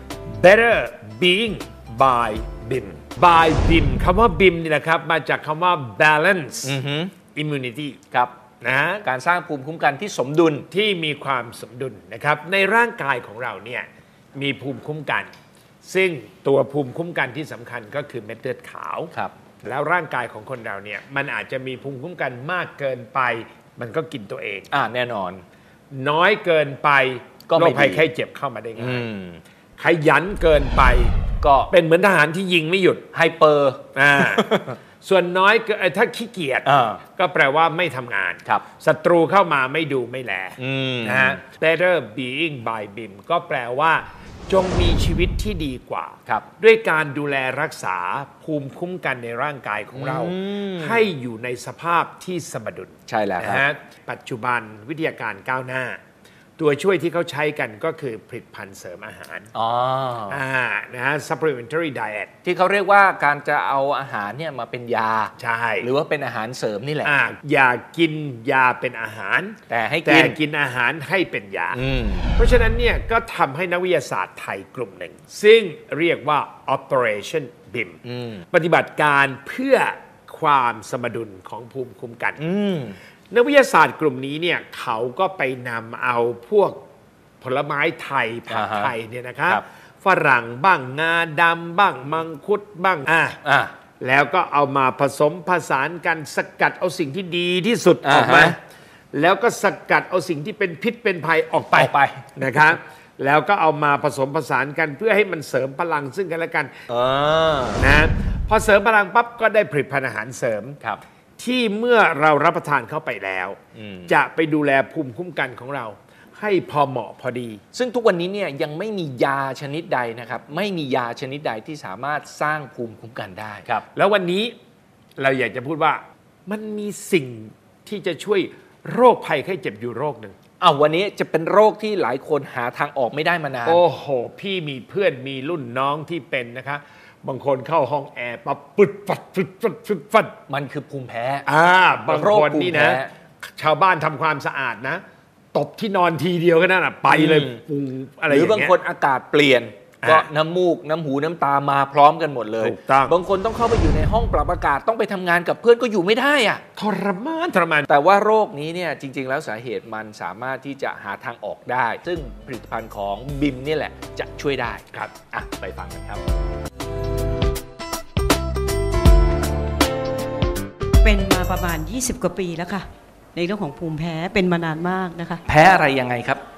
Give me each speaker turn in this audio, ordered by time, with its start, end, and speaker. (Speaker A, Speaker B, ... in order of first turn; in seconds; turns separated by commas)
Speaker A: 0.3-6.8, Speaker B: 6.6-7.2, Speaker A: 7.3-8.0, Speaker A: 8.6-9.1, Speaker B: 9.0-10.7, Speaker A: 10.7-15.3, Speaker A: 15.8-19.1, Speaker A: 19.6-24.7, Speaker B: 24.7-25.4, Speaker A: 25.9-29.1, Speaker B: 27.5-28.1, Speaker B: 28.8-29.4, Speaker A: 29.8-31.1, Speaker B: 31.4-31.7, Speaker A: 31.7-33.1, Speaker B: 33.1-34.8, Speaker A: 33.9-34.5, Speaker A: 35.0-56.0, Speaker B: 36.6-37.0, Speaker B: 40.6-41.4, Speaker B: 49.9-51.1, Speaker B: 53.1-53.6, Speaker A: 56.6-59.5, Speaker B: 59.5-60.4, Speaker A: 60.3-62.3, Speaker B: 62.4-67.1, Speaker A: 65.4-65.9, Speaker A: 67.0-71.8, Speaker B: 69.7-70.4, Speaker B: 71.7-72.3, Speaker A: 72.3-78.0, Speaker B: 78.0-78.4, Speaker A: 78.5-82.4, Speaker B: 82.4-83.0, Speaker A: 83.3-86.8, Speaker A: 87.4-93.4, Speaker B: 88.5-88.9, Speaker B: 93.4-93.7, Speaker A: 94.0-98.6, Speaker B: 98.0-98.6, Speaker A: 99.1-106.7, Speaker B: 101.7-102.5, Speaker B: 106.9-107.8, Speaker A: 107.8-110.8, Speaker A: 111.4-117.6, Speaker B: 113.8-114.1, Speaker B: 117.7-123.8, Speaker A: 123.9-124.5, Speaker A: 125.2-130.4, Speaker B: 130.6-133.8, Speaker A: 133.7-140.3, Speaker B: 140.5-141.5, Speaker A: 141.5-145.0, Speaker B: 142.1-143.1, Speaker A: 145.5-148.8, Speaker B: 147.1-147.6, Speaker B: 148.3-156.6, Speaker A: 150.0-150.3, Speaker A: 152.6-153.2, Speaker A: 156.8-157.9, Speaker B: 157.9-166.2, Speaker C: 171.0-175.4, Speaker B: 175.5-176.4